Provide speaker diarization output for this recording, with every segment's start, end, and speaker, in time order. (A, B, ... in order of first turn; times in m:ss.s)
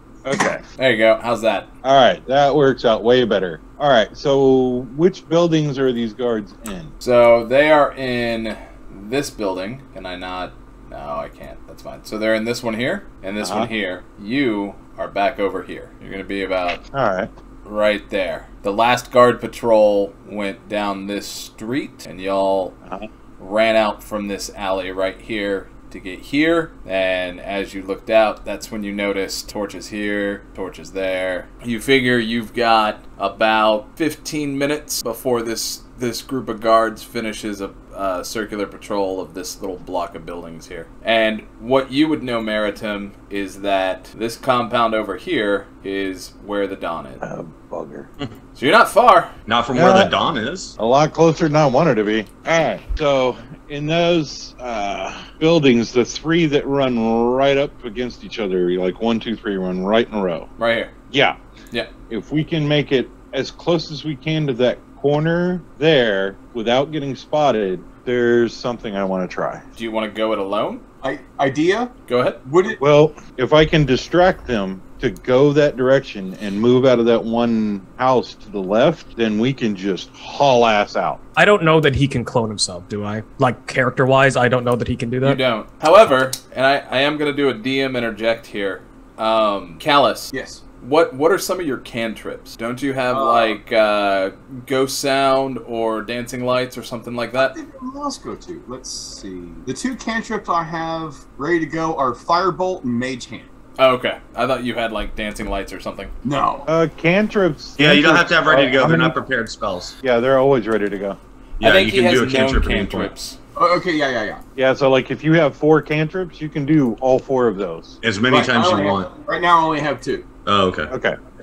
0:00.2-0:00.6 A
0:00.8-0:01.7 B
0:01.8-0:06.9 A
0:07.0-0:16.8 B
0:13.4-0:13.7 A
0:16.9-0:17.3 A
0:17.6-0:22.7 B
0:23.4-0:47.2 B
0:47.2-0:48.1 A
0:48.6-0:49.3 B
0:49.5-0:50.7 C
0:49.7-0:50.1 A
0:50.8-1:00.5 A
1:00.6-1:00.9 B
1:01.1-1:01.4 A
1:02.1-1:09.6 A
1:09.8-1:10.8 B
1:11.0-1:11.9 D
1:12.1-1:12.4 B
1:12.4-1:12.8 D
1:12.8-1:21.2 A
1:21.4-1:25.4 E
1:25.2-1:37.5 B
1:30.3-1:30.6 D
1:33.1-1:33.6 D
1:37.4-1:43.5 D
1:43.8-1:46.1 B
1:46.2-1:46.7 D
1:46.7-1:49.2 A
1:47.8-1:49.9 C
1:50.0-1:51.2 A
1:51.6-1:53.1 C
1:51.6-1:53.4 B
1:53.6-1:54.4 D
1:54.6-1:58.0 A
1:58.0-1:59.1 C
1:58.3-2:00.3 D
2:00.4-2:00.9 C
2:00.9-2:01.2 A